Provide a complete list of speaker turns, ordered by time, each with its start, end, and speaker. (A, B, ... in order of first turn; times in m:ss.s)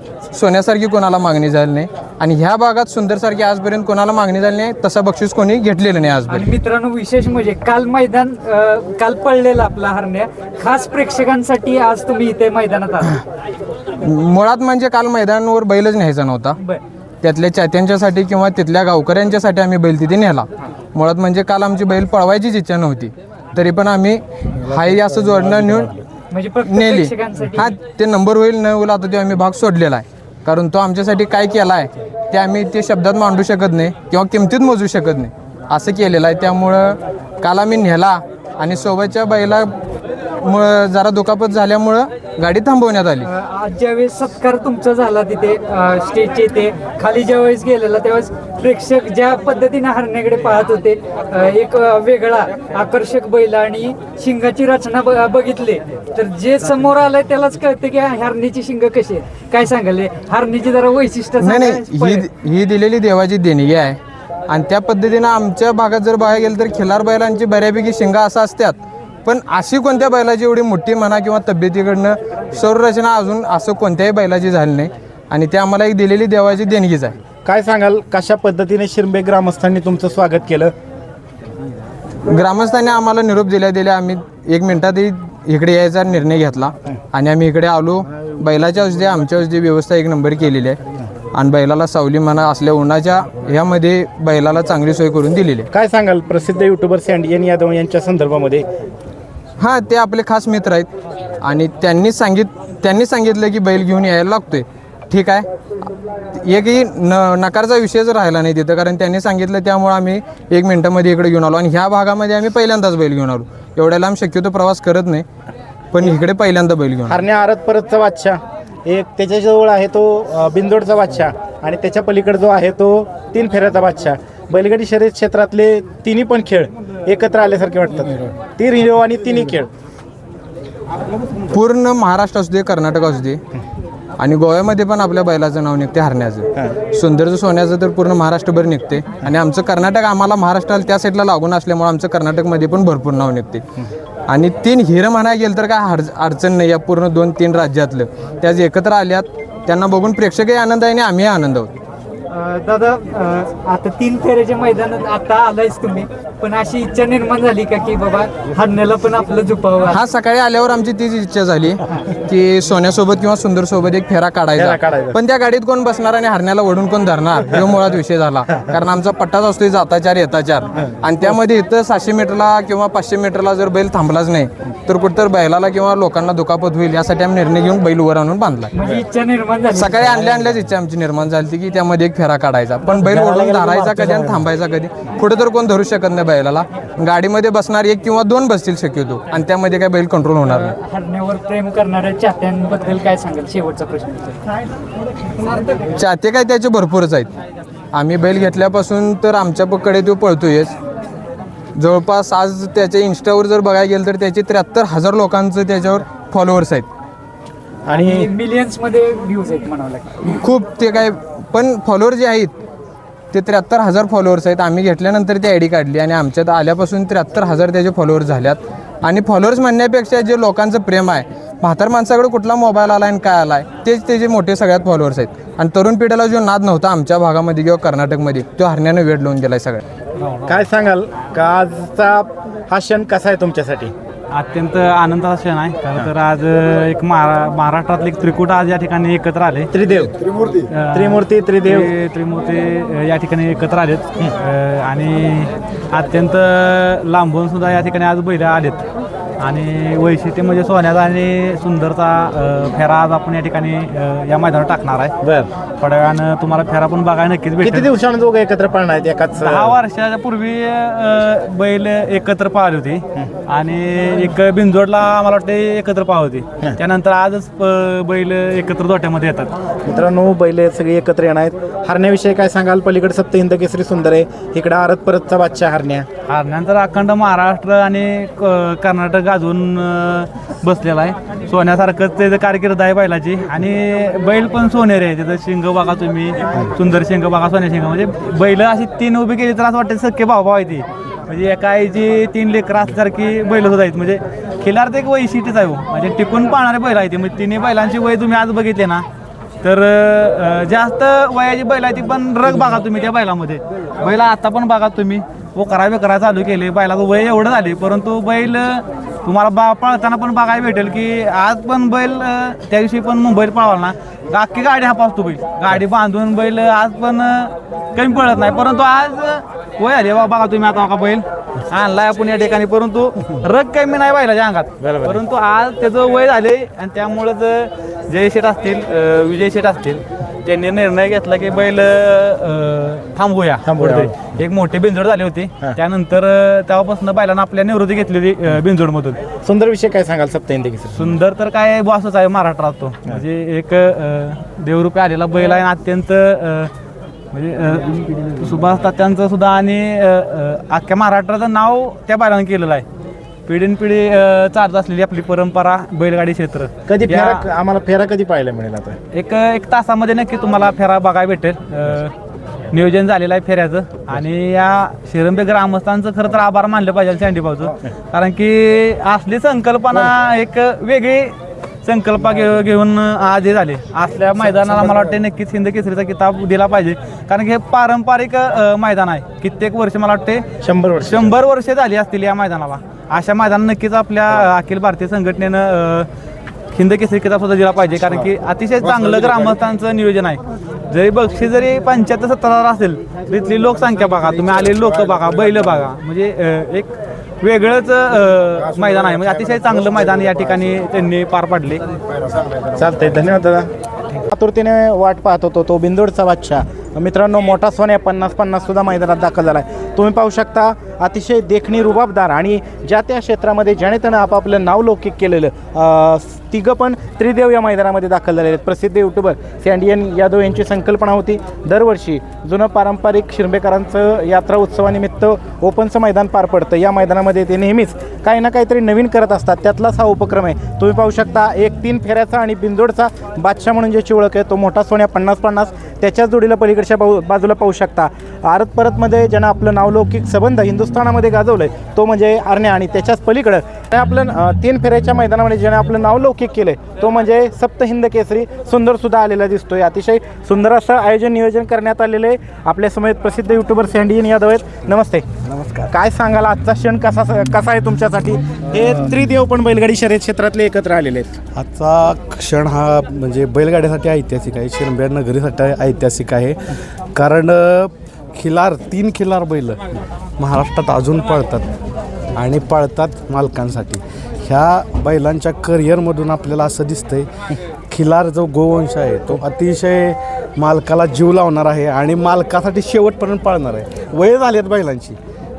0:00.3-0:06.5 A
0:06.3-0:13.2 B
0:14.0-0:16.6 A
0:17.2-0:26.0 A
0:26.3-0:27.7 B
0:26.7-0:39.7 A
0:40.4-0:43.3 A
0:43.2-1:02.2 B
1:01.4-1:17.2 A
1:17.4-1:20.7 C
1:22.3-1:30.8 A
1:31.3-1:35.7 A
1:35.7-1:38.6 C
1:39.6-1:40.9 A
1:41.4-1:55.3 A
1:55.9-1:57.2 A
1:57.1-2:09.7 C
2:11.5-2:13.4 A
2:14.2-2:23.6 A
2:24.3-2:31.7 A
2:32.3-2:40.0 B
2:39.9-2:58.7 A
2:44.6-2:45.2 C
2:58.7-3:00.3 B
2:59.7-3:10.7 A
3:03.0-3:04.4 D
3:10.5-3:14.4 B
3:15.9-3:17.3 A
3:17.9-3:20.8 A
3:21.8-3:26.9 A
3:27.9-3:28.3 C
3:27.9-3:30.2 B
3:30.2-3:32.6 A
3:33.3-3:49.8 A
3:50.2-3:50.6 E
3:50.5-3:53.9 C
3:54.3-3:59.7 E
3:59.7-4:00.2 C
4:00.7-4:08.8 E
4:00.9-4:01.9 C
4:09.4-4:15.2 E
4:15.2-4:15.5 C
4:15.8-4:17.9 E
4:17.6-4:19.8 C
4:19.4-4:29.5 E
4:29.8-4:36.1 C
4:36.3-4:59.0 E
4:59.6-5:39.2 E
5:24.8-5:25.2 C
5:33.7-5:34.1 C
5:39.4-5:41.1 C
5:40.9-5:46.7 E
5:47.3-5:52.8 E
5:53.5-5:57.5 E
5:56.9-5:59.0 C
5:59.1-6:02.1 E
6:02.7-6:20.5 E
6:20.6-6:21.3 C
6:21.0-6:26.1 E
6:26.7-6:41.8 E
6:42.7-6:43.7 C
6:44.3-7:41.4 C
7:41.6-7:49.8 D
7:50.4-7:51.7 D
7:52.4-7:57.3 D
7:57.9-8:05.2 D